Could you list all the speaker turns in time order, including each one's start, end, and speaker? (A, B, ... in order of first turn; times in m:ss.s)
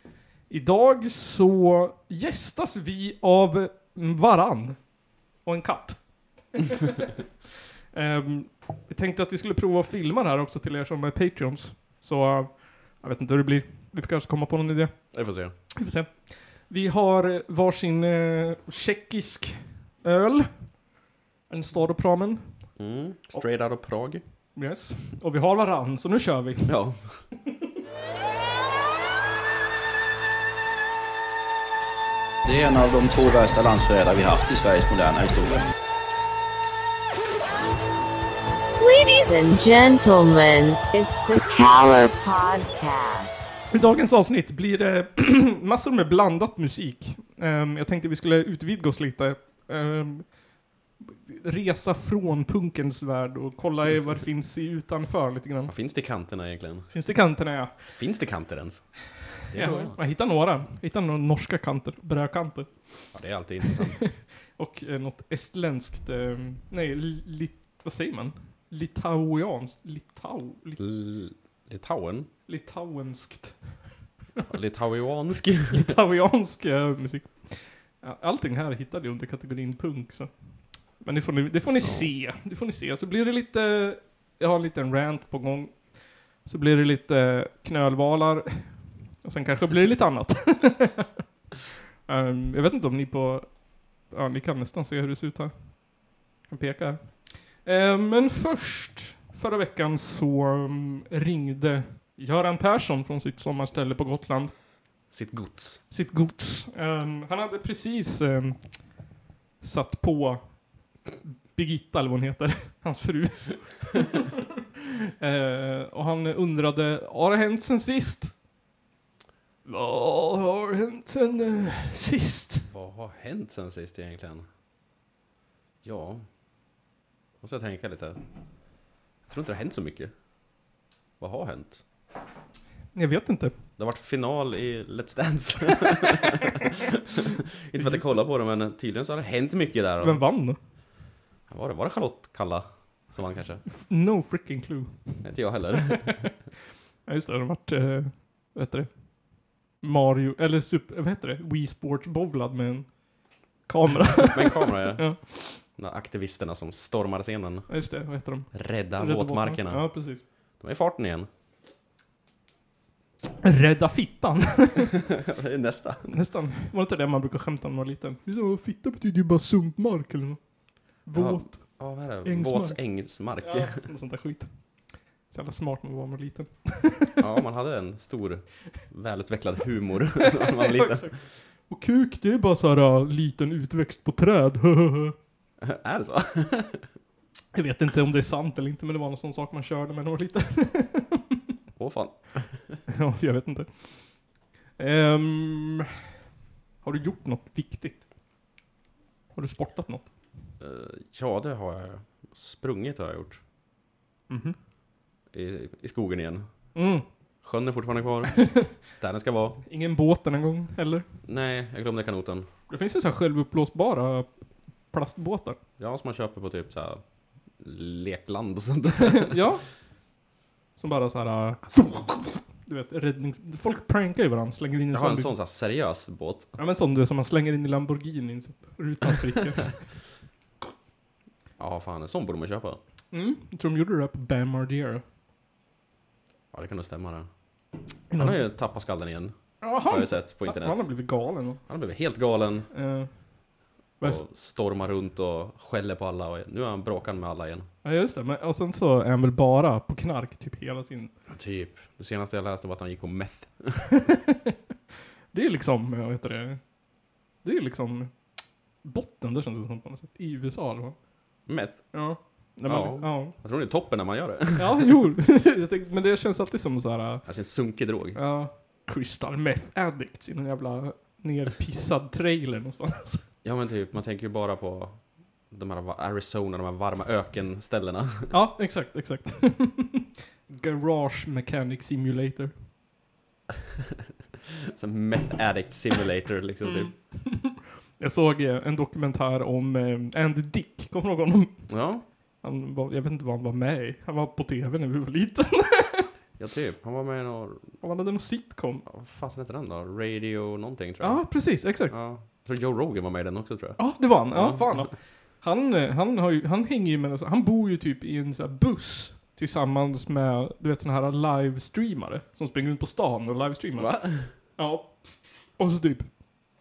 0:00.5-0:07.0 A
0:07.9-0:15.2 A
0:15.1-0:15.5 B
0:15.7-0:20.8 A
0:21.5-0:22.8 A
0:22.8-0:24.2 B
0:24.6-0:26.8 A
0:26.7-0:27.2 B
0:32.4-0:35.7 C
0:38.8-0:43.4 D
0:43.7-0:50.4 A
0:51.0-0:55.7 A
0:55.7-0:56.9 B
0:56.9-0:58.0 A
0:58.0-1:00.0 B
0:59.5-1:10.8 A
1:03.1-1:04.1 B
1:10.8-1:12.3 B
1:12.5-1:14.5 A
1:14.5-1:16.0 B
1:15.7-1:31.1 A
1:21.8-1:22.1 B
1:32.1-1:35.9 A
1:36.4-1:44.6 A
1:45.1-1:45.8 B
1:45.9-1:49.0 A
1:49.6-1:50.6 A
1:51.2-1:54.3 A
1:55.2-1:58.4 A
1:59.6-2:02.7 A
2:02.7-2:04.5 B
2:05.8-2:06.3 B
2:07.4-2:08.2 B
2:09.3-2:10.1 B
2:11.2-2:11.8 B
2:12.9-2:13.5 A
2:13.8-2:20.2 B
2:17.8-2:18.2 A
2:20.0-2:20.6 A
2:21.5-2:23.6 B
2:23.7-2:26.3 A
2:25.2-2:26.3 B
2:27.1-2:29.0 A
2:29.8-2:33.0 A
2:33.6-2:35.6 A
2:34.3-2:37.8 B
2:37.7-2:40.2 A
2:38.5-2:40.0 B
2:40.6-2:41.3 B
2:43.2-2:45.0 A
2:45.0-2:46.1 B
2:46.1-2:50.4 A
2:51.0-2:57.2 A
2:51.1-2:53.8 B
2:57.2-3:01.1 B
3:00.2-3:05.2 A
3:05.6-3:06.9 B
3:07.5-3:11.4 A
3:11.8-3:12.8 B
3:12.9-3:15.9 A
3:16.8-3:18.0 A
3:19.3-3:20.0 A
3:20.6-3:23.4 B
3:24.3-3:24.6 A
3:25.3-3:26.5 B
3:26.8-3:27.0 A
3:27.4-3:29.6 B
3:28.4-3:28.7 A
3:29.7-3:31.1 A
3:31.3-3:32.5 B
3:32.7-3:35.6 A
3:35.8-3:37.0 B
3:37.6-3:39.4 B
3:39.0-3:39.6 A
3:40.8-3:45.3 A
3:44.9-3:46.5 B
3:46.6-3:49.8 A
3:51.6-3:52.8 B
3:53.1-3:55.0 A
3:56.5-3:57.3 B
3:58.1-3:58.5 A
3:58.2-4:01.0 B
3:59.6-4:01.6 A
4:01.7-4:02.7 B
4:02.7-4:03.2 A
4:04.0-4:07.7 B
4:07.8-4:11.1 A
4:11.3-4:13.9 B
4:15.3-4:16.6 A
4:17.4-4:21.0 A
4:21.5-4:22.0 B
4:21.9-4:23.4 A
4:22.6-4:24.8 B
4:24.6-4:27.3 A
4:27.2-4:28.2 B
4:28.2-4:33.3 A
4:33.4-4:38.3 B
4:38.3-4:42.5 A
4:44.7-4:46.9 B
4:46.6-4:51.8 A
4:51.7-4:52.0 B
4:52.4-4:56.1 A
4:56.4-4:57.7 B
4:57.8-4:58.8 A
4:58.9-5:04.9 B
5:01.0-5:01.9 A
5:03.8-5:16.2 A
5:13.8-5:14.3 B